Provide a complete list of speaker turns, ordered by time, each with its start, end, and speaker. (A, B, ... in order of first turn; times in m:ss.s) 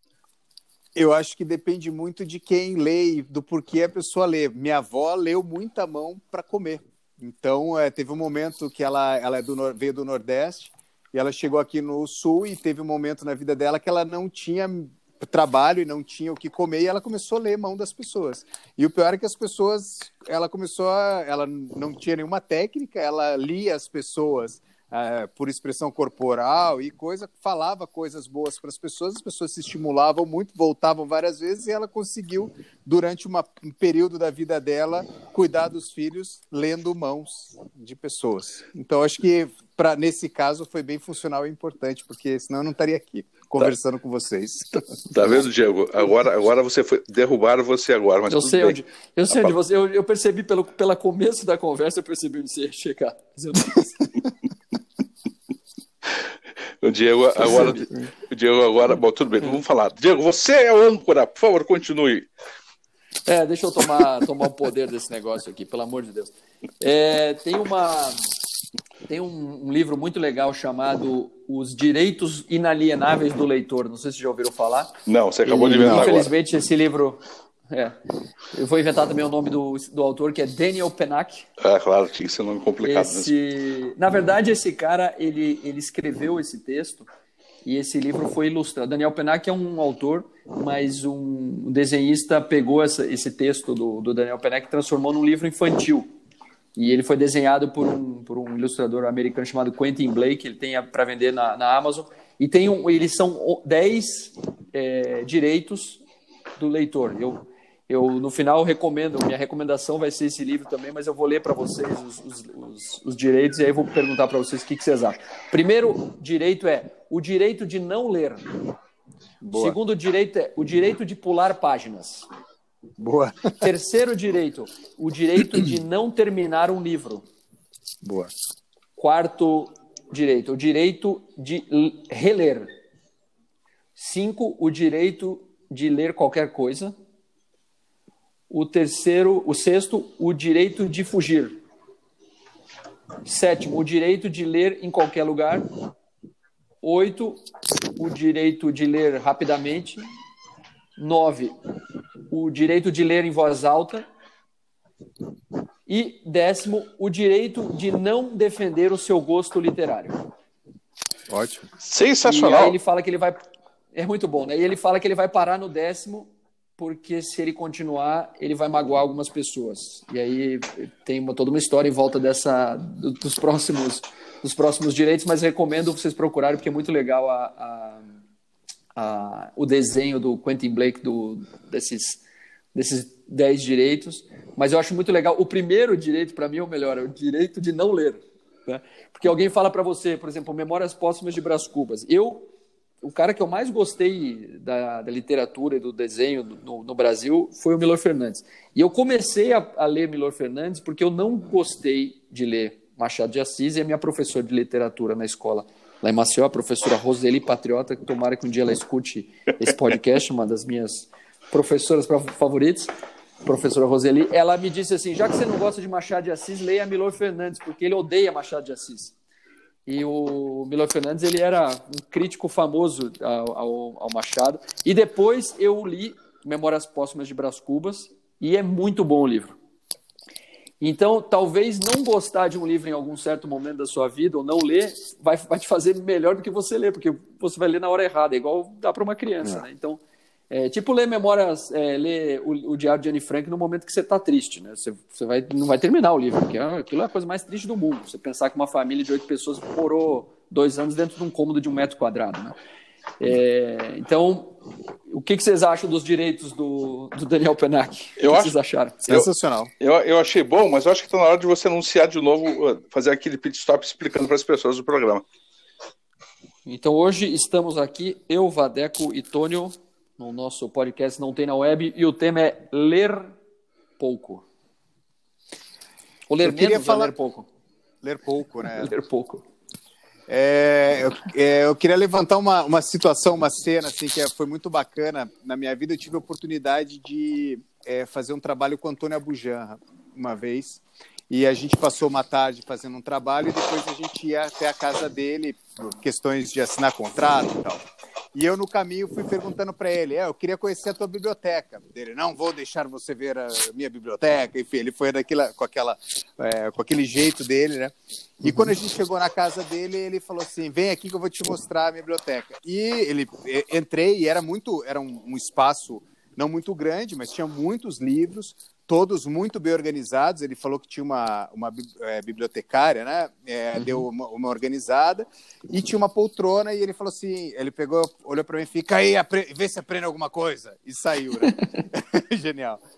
0:01.0-0:44.8 A
0:45.1-0:49.6 B
0:48.3-0:54.1 C
0:56.8-1:02.3 B
0:57.4-0:58.1 C
1:03.3-1:08.2 C
1:09.1-1:14.9 C
1:15.1-1:16.3 B
1:15.4-1:18.0 C
1:18.5-1:21.4 C
1:21.6-1:23.3 B
1:22.8-1:27.1 C
1:27.6-1:36.1 C
1:36.8-1:46.0 C
1:46.6-1:58.5 C
1:59.4-1:59.8 A
1:59.5-2:02.3 C
2:03.0-2:03.6 A
2:03.6-2:07.2 C
2:08.0-2:08.3 A
2:09.0-2:12.7 C
2:14.0-2:16.9 C
2:18.5-2:21.6 C
2:23.2-2:25.7 C
2:26.8-2:27.4 C
2:28.0-2:30.0 C
2:31.0-2:31.6 C
2:32.3-2:34.1 C
2:35.9-2:40.2 C
2:41.3-2:41.7 A
2:41.8-2:42.8 B
2:42.2-2:43.4 C
2:43.9-2:58.1 C
2:59.0-3:02.2 C
3:02.7-3:12.5 C
3:13.0-3:32.9 C
3:33.4-3:39.1 C
3:39.9-3:49.6 C
3:50.8-4:12.6 C
4:13.2-4:14.6 C
4:15.1-4:19.1 C
4:18.2-4:19.3 B
4:19.1-4:19.7 A
4:19.8-4:25.2 B
4:26.6-4:33.3 C
4:34.0-4:34.5 C
4:36.3-4:37.5 C
4:36.4-4:37.1 A
4:38.0-4:38.9 A
4:38.7-4:39.4 C
4:40.3-5:32.8 A
5:08.4-5:08.7 C
5:23.8-5:24.1 C
5:31.5-5:31.8 C